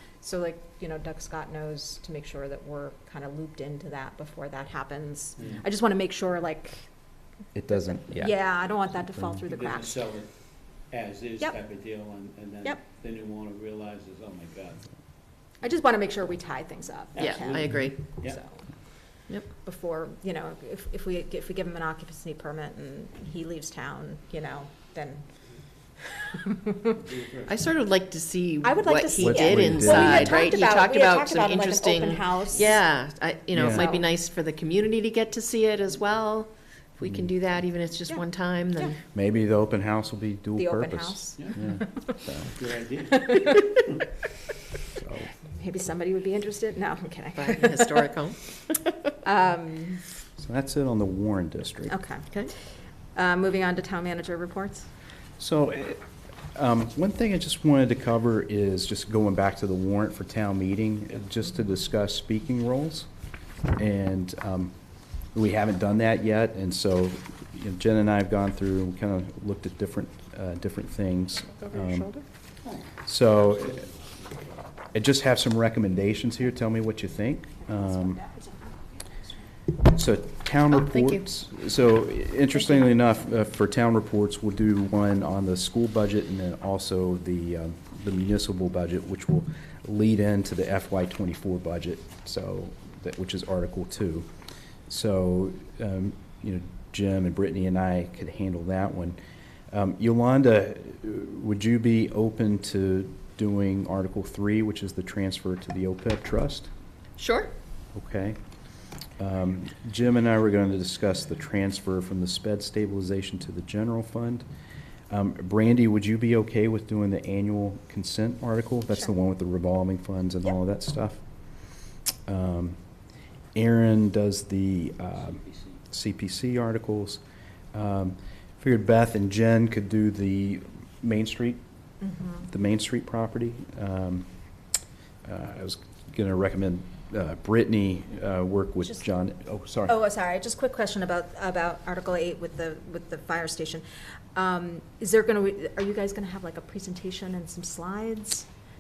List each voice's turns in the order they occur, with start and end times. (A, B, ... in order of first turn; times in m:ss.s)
0:00.2-0:06.9 A
0:07.6-0:08.4 B
0:08.0-0:10.0 A
0:09.1-0:09.4 B
0:09.5-0:10.3 C
0:10.9-0:14.8 C
0:15.6-0:18.6 A
0:17.2-0:18.4 C
0:17.2-0:18.0 D
0:19.6-0:25.2 A
0:26.2-0:27.0 A
0:27.0-0:27.6 C
0:27.5-0:39.0 D
0:28.6-0:32.8 A
0:29.2-0:30.3 B
0:33.5-0:33.8 B
0:33.6-0:34.0 A
0:37.0-0:37.3 B
0:39.1-0:42.5 B
0:40.6-0:42.2 A
0:42.6-0:44.1 C
0:43.1-0:43.7 A
0:45.0-0:45.3 B
0:45.5-0:48.1 A
0:47.4-0:48.9 D
0:49.2-0:50.0 A
0:50.4-0:52.0 B
0:51.9-0:52.3 A
0:53.2-0:54.9 A
0:55.4-0:56.0 B
0:56.5-1:03.1 B
1:03.8-1:04.7 B
1:05.3-1:12.1 B
1:11.6-1:12.2 D
1:13.0-1:13.9 B
1:14.9-1:18.2 B
1:17.7-1:19.4 A
1:19.8-1:34.3 B
1:20.7-1:21.3 D
1:34.9-1:39.2 B
1:39.7-1:46.7 B
1:47.2-1:47.5 D
1:48.0-1:48.4 B
1:49.2-1:54.5 B
1:55.1-2:01.2 B
2:02.3-2:02.8 B
2:03.6-2:07.2 B
2:05.2-2:05.7 C
2:07.7-2:11.6 B
2:12.0-2:12.4 A
2:12.4-2:14.3 B
2:15.2-2:20.0 B
2:19.9-2:28.5 A